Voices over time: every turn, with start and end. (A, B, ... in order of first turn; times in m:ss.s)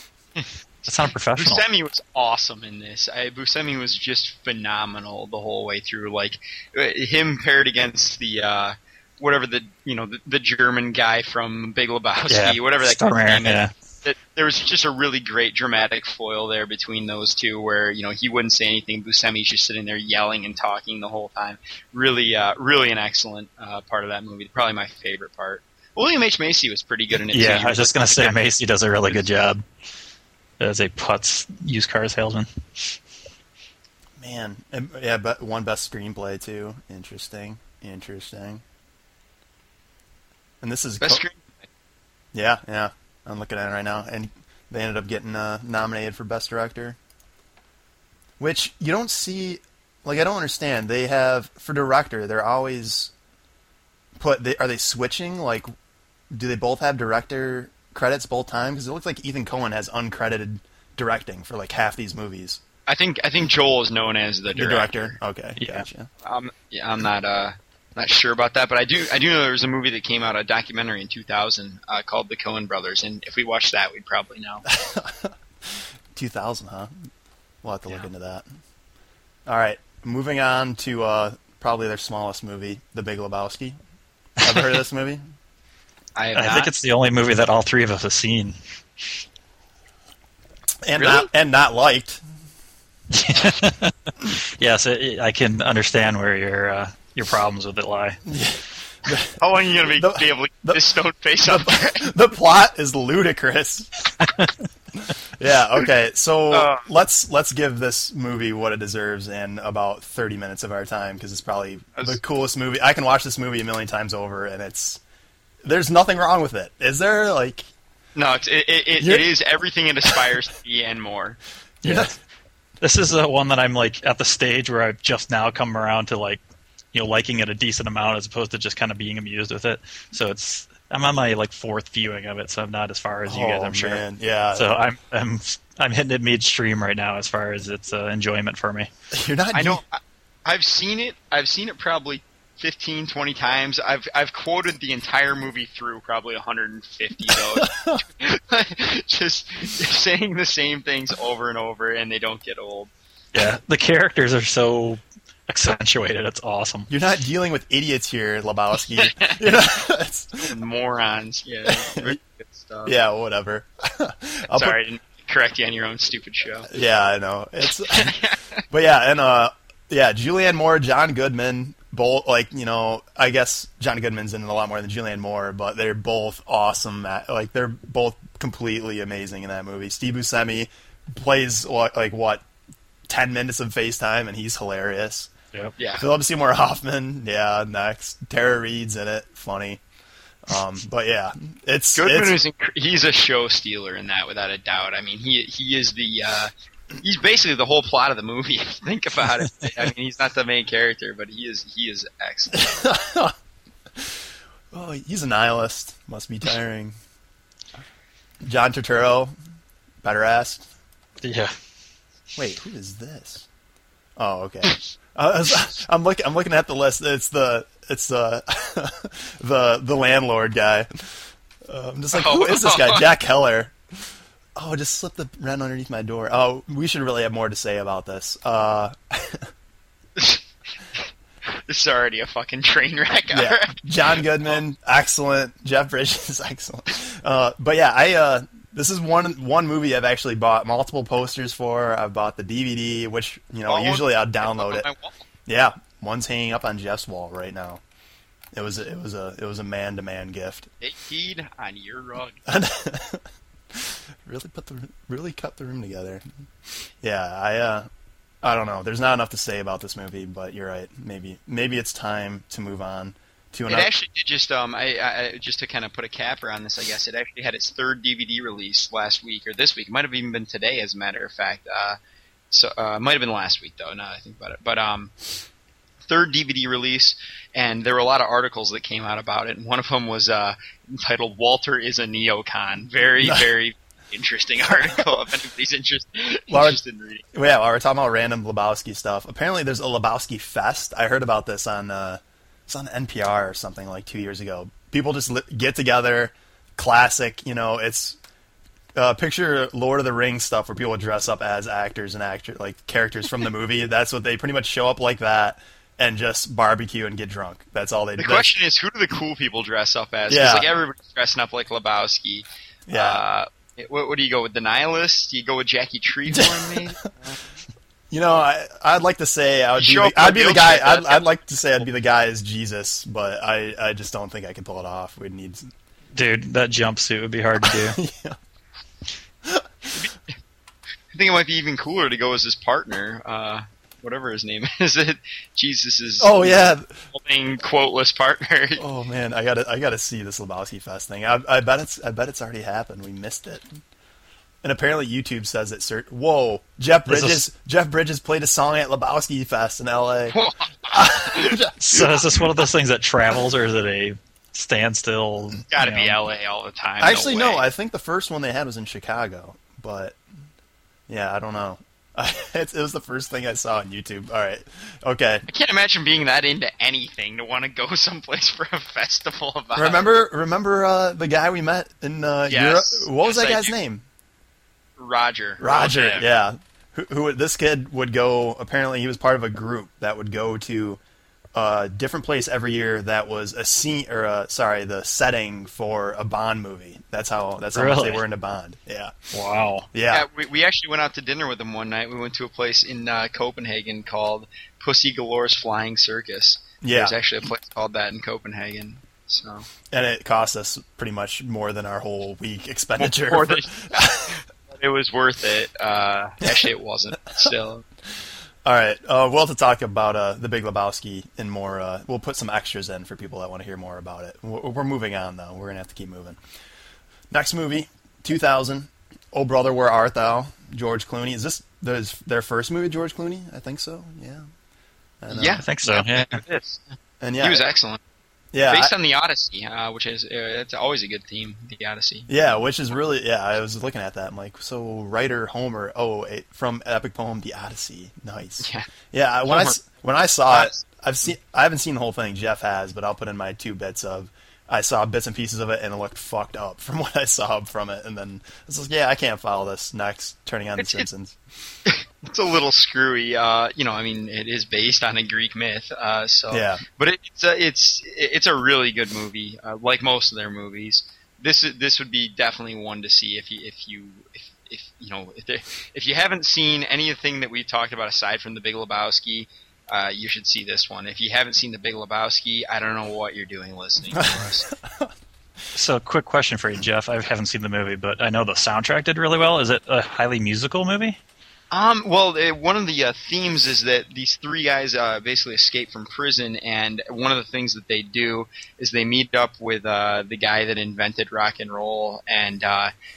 0:00.4-0:28.4 A
0:00.8-0:01.6 B
0:12.3-0:13.7 B
0:27.3-0:29.6 B
0:30.6-0:33.0 B
0:34.2-0:38.6 C
0:40.6-0:41.2 C
0:41.0-0:41.6 A
0:42.3-0:47.0 C
0:48.4-0:53.1 C
0:54.2-0:55.7 C
0:56.3-1:02.6 C
1:02.9-1:05.2 A
1:04.5-1:06.1 C
1:05.6-1:05.8 B
1:06.2-1:14.6 A
1:14.6-1:15.3 C
1:16.1-1:16.9 C
1:17.6-1:18.4 C
1:19.5-1:23.8 C
1:24.4-1:25.2 C
1:26.1-1:26.7 A
1:26.3-1:28.6 B
1:30.8-1:32.2 C
1:31.0-1:31.3 A
1:33.1-1:38.2 B
1:38.2-1:40.8 C
1:39.4-1:42.1 A
1:41.4-1:44.1 C
1:44.2-1:44.5 B
1:45.0-1:55.0 C
1:46.5-1:46.9 A
1:55.6-1:57.6 C
1:58.1-2:01.4 A
1:59.0-1:59.3 C
2:01.8-2:02.1 C
2:01.8-2:02.1 B
2:02.8-2:06.4 B
2:06.9-2:18.9 B
2:13.3-2:14.7 C
2:19.1-2:19.8 C
2:19.5-2:32.9 A
2:27.5-2:28.0 C
2:33.3-2:36.9 B
2:36.9-2:40.5 C
2:39.0-2:39.4 A
2:40.4-2:42.9 A
2:41.6-2:42.2 C
2:42.8-2:44.8 C
2:44.5-2:46.7 A
2:46.7-2:48.2 C
2:47.9-2:48.6 A
2:48.7-3:02.4 C
3:03.1-3:05.3 C
3:05.8-3:06.0 A
3:06.0-3:09.8 C
3:10.5-3:12.4 C
3:11.9-3:22.7 A
3:22.5-3:23.3 C
3:24.7-3:26.9 C
3:28.4-3:29.3 C
3:30.0-3:30.6 C
3:31.2-3:31.5 B
3:32.4-3:33.5 C
3:34.2-3:41.1 C
3:41.7-3:43.7 C
3:42.1-3:43.1 A
3:44.6-3:49.5 C
3:50.2-3:54.6 A
3:53.3-4:04.9 C
4:03.7-4:05.2 A
4:05.4-4:07.8 C
4:08.5-4:10.7 C
4:10.8-4:12.4 A
4:12.4-4:16.2 C
4:17.0-4:17.9 C
4:18.4-4:23.9 C
4:23.7-4:32.0 A
4:32.5-4:35.1 A
4:36.0-4:47.2 A
4:43.2-4:43.5 C
4:46.5-4:46.8 C
4:47.3-4:58.2 C
4:59.0-5:08.6 C
5:08.2-5:17.4 A
5:10.3-5:10.7 C
5:12.9-5:13.2 C
5:16.3-5:17.0 C
5:18.1-5:25.7 C
5:19.8-5:21.3 A
5:26.1-5:28.0 B
5:27.6-5:28.4 C
5:29.4-5:29.9 C
5:31.1-5:38.8 A
5:36.2-5:37.0 C
5:38.8-5:43.6 C
5:44.6-5:50.4 C
5:47.1-5:47.4 B
5:50.3-5:52.4 A
5:50.9-5:52.1 C
5:51.8-5:56.2 B
5:55.7-5:57.6 A
5:57.0-6:00.2 C
6:01.1-6:05.5 C
6:05.5-6:10.0 A
6:09.8-6:14.0 C
6:12.5-6:13.7 A
6:15.0-6:16.3 A
6:15.6-6:21.0 C
6:21.5-6:29.1 C
6:27.7-6:28.2 B
6:29.3-6:29.9 B
6:29.9-6:30.2 C
6:30.1-6:39.7 A
6:36.8-6:37.2 C
6:39.9-6:44.4 C
6:43.0-6:44.1 A
6:44.7-6:47.8 A
6:48.6-6:56.4 C
6:57.3-7:04.4 C
7:05.2-7:05.6 C
7:05.3-7:06.8 A
7:05.6-7:06.4 B
7:07.2-7:07.6 C
7:07.4-7:08.0 A
7:08.5-7:08.9 C
7:08.7-7:12.3 A
7:12.3-7:31.4 C
7:18.6-7:18.9 A
7:19.4-7:19.8 A
7:20.5-7:20.8 A
7:30.8-7:31.1 A
7:31.8-7:54.6 A
7:36.5-7:36.8 C
7:54.1-7:55.1 C
7:55.7-8:01.2 B
8:01.7-8:12.9 A